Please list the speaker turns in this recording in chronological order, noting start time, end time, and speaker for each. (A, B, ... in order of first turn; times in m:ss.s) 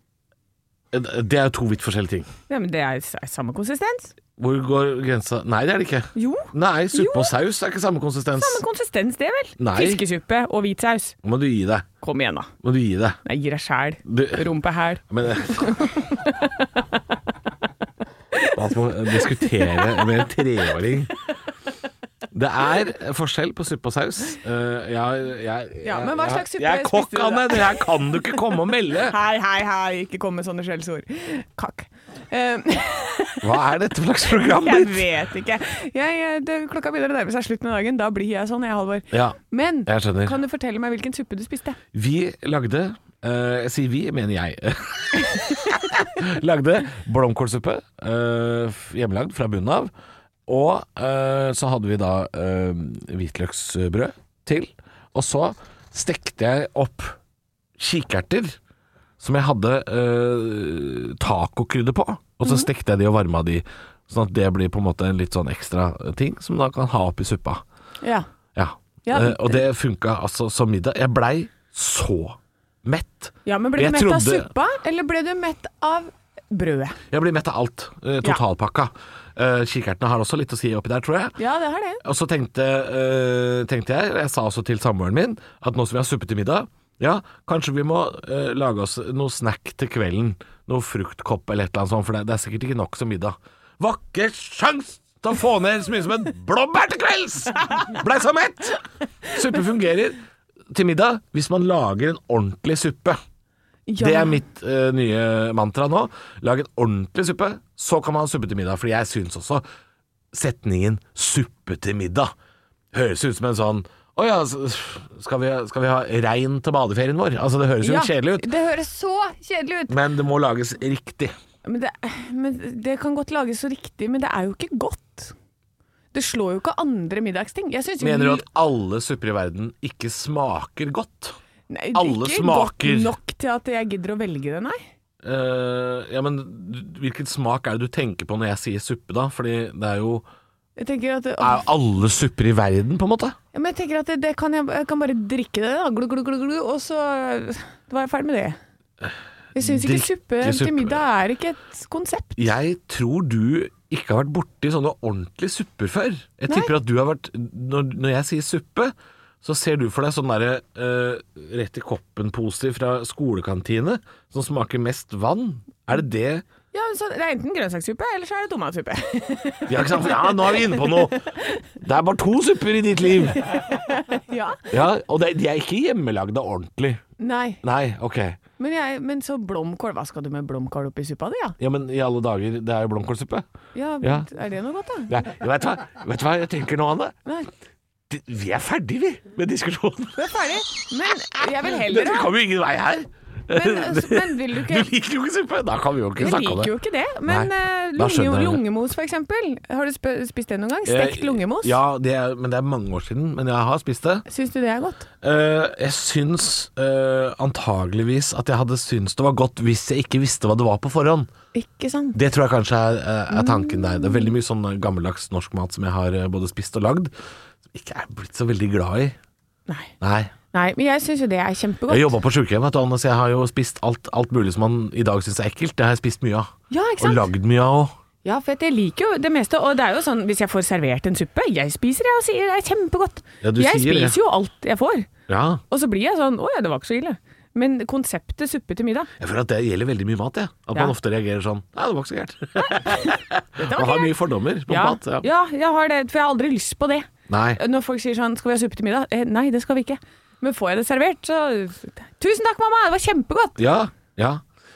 0:00.9-0:02.3 A
0:02.5-0:04.1 B
0:04.4-0:08.6 A
0:06.2-0:07.3 B
0:08.4-0:11.2 B
0:09.6-0:10.0 A
0:11.2-0:11.9 A
0:12.0-0:12.5 B
0:12.6-0:13.2 A
0:13.2-0:16.8 B
0:14.0-0:14.5 A
0:15.1-0:15.9 A
0:18.3-0:18.6 B
0:18.5-0:21.1 A
0:19.1-0:20.2 B
0:22.3-0:29.2 A
0:25.8-0:28.3 B
0:29.0-0:33.6 B
0:33.4-0:35.1 A
0:34.3-0:41.8 B
0:39.1-0:40.4 A
0:41.9-0:49.9 A
0:50.5-0:57.2 A
0:57.8-0:58.6 A
0:59.2-1:07.6 A
1:02.4-1:02.7 B
1:08.0-1:08.3 B
1:08.6-1:14.5 A
1:09.0-1:09.6 B
1:13.4-1:17.0 B
1:17.1-1:21.4 A
1:21.4-1:22.0 B
1:22.0-1:40.2 A
1:40.7-1:43.2 A
1:43.9-1:44.4 B
1:44.0-1:49.6 A
1:50.3-1:52.3 A
1:52.9-1:58.5 A
1:57.8-2:00.0 B
1:59.9-2:01.3 A
2:01.6-2:05.3 B
2:06.1-2:08.4 B
2:08.0-2:11.4 A
2:11.7-2:14.8 B
2:11.9-2:13.1 A
2:15.2-2:20.2 A
2:20.8-2:21.6 B
2:21.4-2:23.4 A
2:23.5-2:28.6 B
2:29.0-2:31.0 A
2:29.6-2:32.5 B
2:32.4-2:46.4 A
2:46.7-2:51.6 B
2:49.7-2:51.2 A
2:51.8-2:53.5 A
2:53.4-2:54.7 B
2:54.7-2:57.0 A
2:57.2-2:57.6 B
2:57.6-2:58.4 A
2:58.6-3:01.6 B
3:01.6-3:03.5 A
3:03.8-3:05.2 B
3:04.0-3:04.3 A
3:05.1-3:07.2 A
3:08.1-3:10.2 A
3:10.2-3:12.3 B
3:11.6-3:16.7 A
3:13.5-3:14.9 B
3:16.2-3:21.8 B
3:17.3-3:18.6 A
3:20.9-3:24.3 A
3:24.3-3:25.1 B
3:25.2-3:31.3 A
3:31.5-3:32.2 B
3:32.2-3:37.1 A
3:33.4-3:34.3 B
3:37.7-3:39.2 A
3:39.7-3:39.9 B
3:40.0-3:40.3 A
3:40.5-3:42.1 B
3:41.9-3:47.9 A
3:46.7-3:47.3 B
3:48.2-3:55.1 B
3:53.4-3:54.2 A
3:55.3-3:55.6 A
3:55.7-3:59.1 B
3:59.2-4:05.3 A
4:02.7-4:04.1 B
4:04.7-4:13.6 B
4:07.3-4:07.6 A
4:13.6-4:14.4 A